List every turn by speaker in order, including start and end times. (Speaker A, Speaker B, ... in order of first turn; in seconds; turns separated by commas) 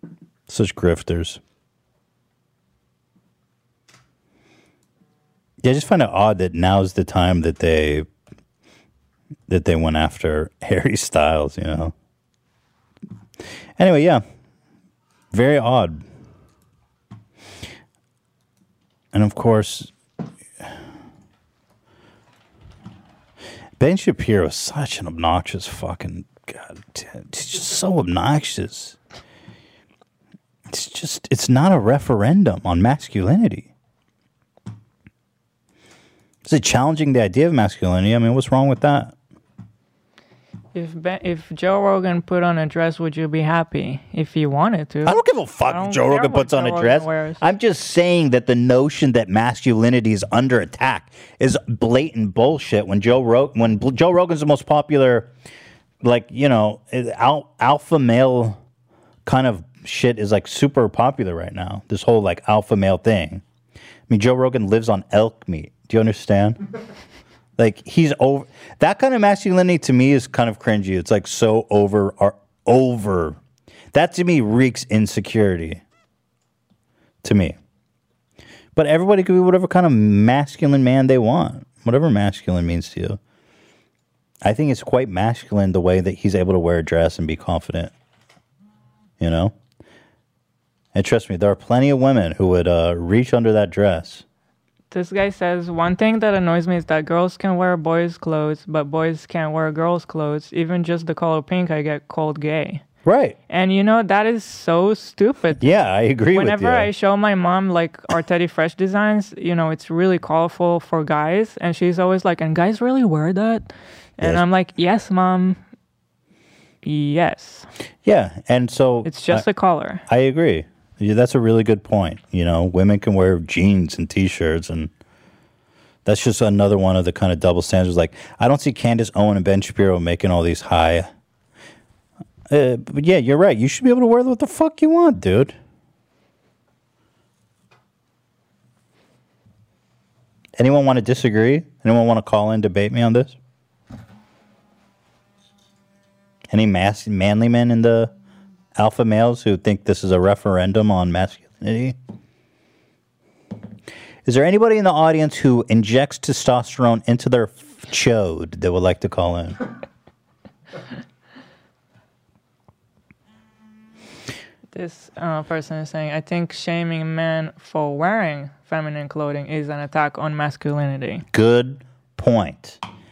Speaker A: 0.5-1.4, Speaker A: 5.6-8.1, Speaker A: 9.5-11.9, Speaker A: 13.8-14.2, Speaker A: 15.3-16.0, Speaker A: 19.1-19.9, Speaker A: 23.8-29.0, Speaker A: 30.7-33.7, Speaker A: 36.4-39.1, Speaker B: 40.7-47.4, Speaker A: 45.0-55.3, Speaker A: 56.0-58.6, Speaker A: 59.2-63.4, Speaker A: 64.1-66.6, Speaker A: 67.6-73.4, Speaker A: 73.9-75.8, Speaker A: 77.2-77.6, Speaker A: 78.7-83.2, Speaker A: 84.4-87.9, Speaker A: 89.2-89.5, Speaker A: 90.9-94.2, Speaker B: 94.9-102.8, Speaker A: 103.0-103.3, Speaker B: 103.5-105.6, Speaker A: 105.6-106.9, Speaker B: 106.3-115.6, Speaker B: 116.8-117.7, Speaker A: 118.0-119.5, Speaker B: 119.0-120.0, Speaker A: 120.1-124.9, Speaker A: 126.0-131.1, Speaker A: 132.5-135.6, Speaker A: 140.6-143.4, Speaker A: 146.5-148.1, Speaker A: 148.7-152.0, Speaker A: 154.2-159.6, Speaker B: 164.7-171.2, Speaker A: 171.3-172.8